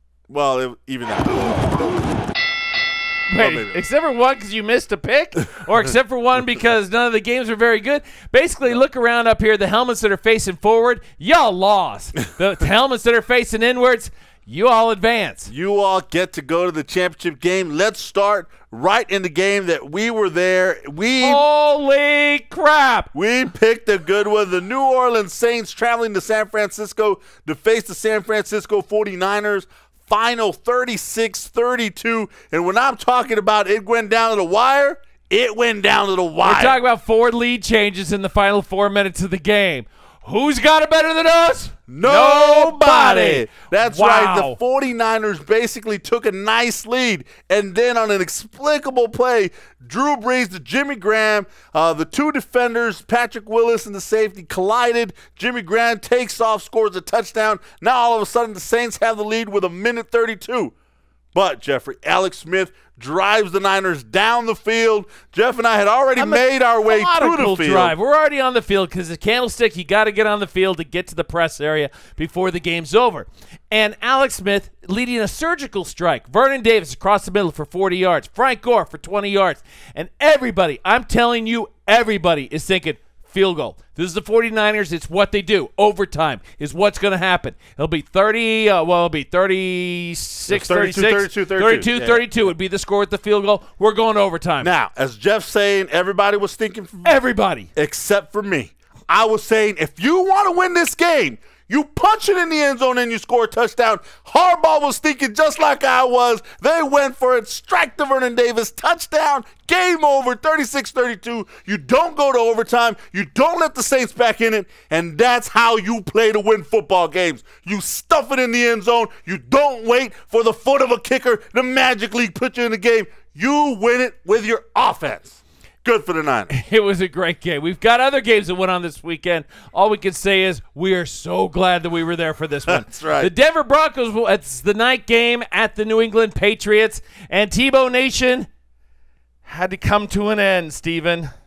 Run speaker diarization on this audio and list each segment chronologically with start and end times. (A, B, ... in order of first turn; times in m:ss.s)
0:00.3-0:02.0 A
0:03.3-0:15.5 B
0:03.4-0:03.8 A
0:15.5-0:21.4 A
0:21.2-0:23.1 B
0:23.1-0:36.8 A
0:36.4-0:44.6 B
0:41.9-1:00.7 A
1:01.3-1:07.9 A
1:06.2-1:34.7 B
1:30.5-1:32.2 A
1:34.6-1:37.2 A
1:37.0-1:37.7 B
1:37.7-2:06.5 A
2:06.5-2:18.5 B
2:12.7-2:13.3 A
2:19.4-2:21.3 B